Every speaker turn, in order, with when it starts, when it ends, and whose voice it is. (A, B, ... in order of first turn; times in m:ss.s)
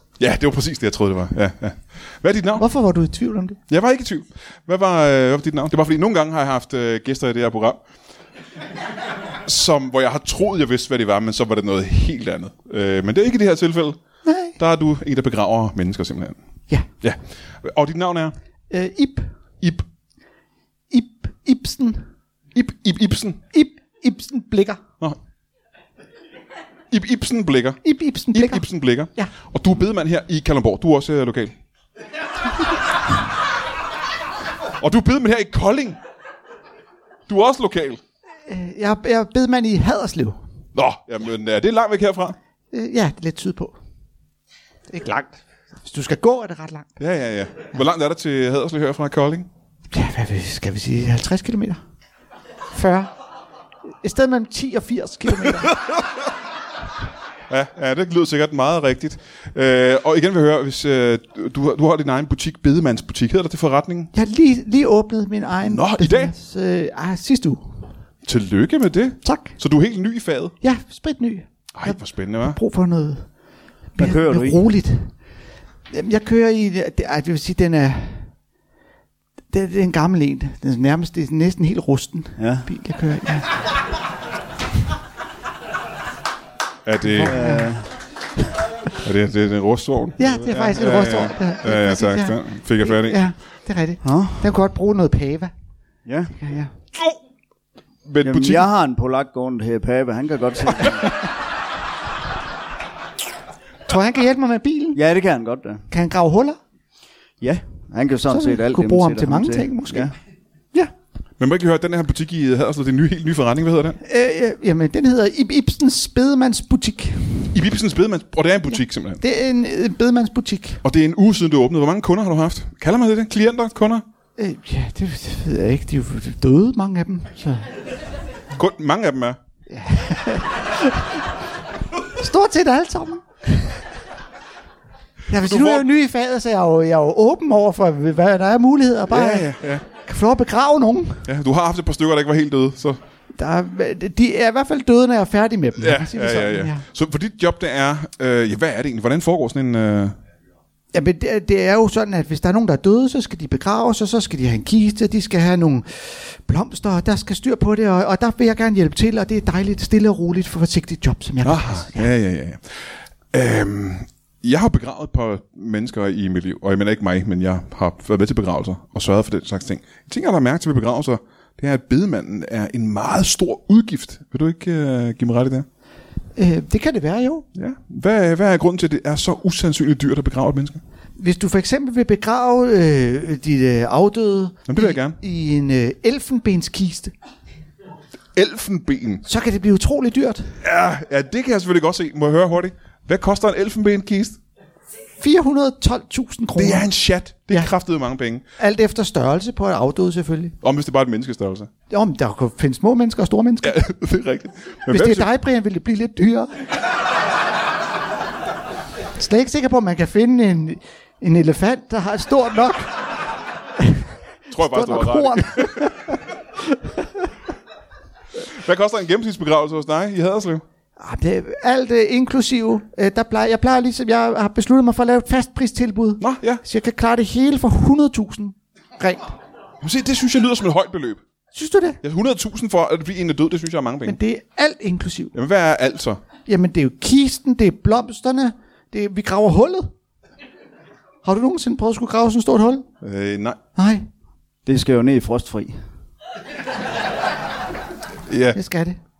0:00.2-0:02.6 A
0:02.6-0:03.6 B
0:03.7-0:07.8 A
0:09.4-0:14.0 A
0:14.2-0:14.6 B
0:14.6-0:16.4 A
0:17.0-0:18.3 A
0:18.7-0:19.3 B
0:19.6-0:19.8 A
0:20.9-0:22.1 B
0:22.5-0:23.4 A
0:23.5-0:24.8 B
0:26.9-0:31.6 A
0:27.8-0:28.6 B
0:34.7-0:36.0 A
0:37.3-0:38.0 A
0:38.5-0:40.4 B
0:40.7-0:42.4 A
0:42.7-0:43.7 B
0:44.9-0:46.9 B
0:47.0-0:49.5 A
0:49.9-0:51.8 B
0:52.7-0:53.1 B
0:53.9-0:55.8 B
0:57.5-1:04.1 A
1:04.1-1:07.7 B
1:05.6-1:06.3 A
1:08.2-1:10.5 A
1:09.2-1:09.6 B
1:10.6-1:13.3 B
1:11.7-1:12.6 A
1:13.9-1:15.2 B
1:14.0-1:14.6 C
1:15.9-1:18.3 B
1:19.5-1:23.5 B
1:22.4-1:22.7 C
1:26.8-1:27.4 A
1:27.0-1:27.8 B
1:27.2-1:27.9 C
1:29.0-1:33.2 A
1:30.2-1:35.5 B
1:34.0-1:34.5 C
1:36.0-1:36.6 C
1:36.4-1:36.6 B
1:38.0-1:38.7 A
1:38.2-1:41.2 C
1:43.9-1:45.0 B
1:44.9-1:45.9 C
1:45.9-1:46.6 B
1:47.4-1:50.1 C
1:48.3-1:50.1 B
1:51.4-1:54.0 A
1:54.0-1:57.5 B
1:57.5-1:59.2 A
1:59.2-2:00.8 B
2:00.8-2:04.0 A
2:04.4-2:07.6 B
2:08.5-2:09.4 A
2:09.7-2:11.2 B
2:12.2-2:13.8 B
2:15.3-2:21.3 B
2:15.4-2:15.8 A
2:19.1-2:19.8 A
2:21.2-2:23.0 A
2:23.4-2:26.8 B
2:25.8-2:30.2 A
2:30.9-2:42.1 B
2:41.4-2:55.6 A
2:56.4-2:57.4 B
2:57.5-3:00.8 A
3:01.2-3:07.1 B
3:04.7-3:05.2 A
3:08.3-3:09.2 A
3:09.2-3:10.5 B
3:10.6-3:14.4 A
3:15.2-3:16.9 B
3:16.6-3:18.4 A
3:18.6-3:20.5 B
3:20.6-3:21.7 A
3:21.9-3:23.8 B
3:23.6-3:25.3 A
3:24.9-3:26.5 B
3:29.2-3:33.0 B
3:33.8-3:37.2 B
3:34.5-3:36.1 A
3:38.4-3:40.6 A
3:41.0-3:49.4 B
3:46.2-3:46.6 A
3:49.8-3:51.2 A
3:51.5-3:52.0 B
3:52.0-3:54.2 A
3:54.0-3:55.3 B
3:55.3-3:56.2 A
3:56.4-3:59.9 B
4:01.2-4:02.8 B
4:03.0-4:03.6 A
4:03.8-4:04.0 B
4:04.6-4:05.8 C
4:08.3-4:08.6 A
4:08.5-4:09.0 B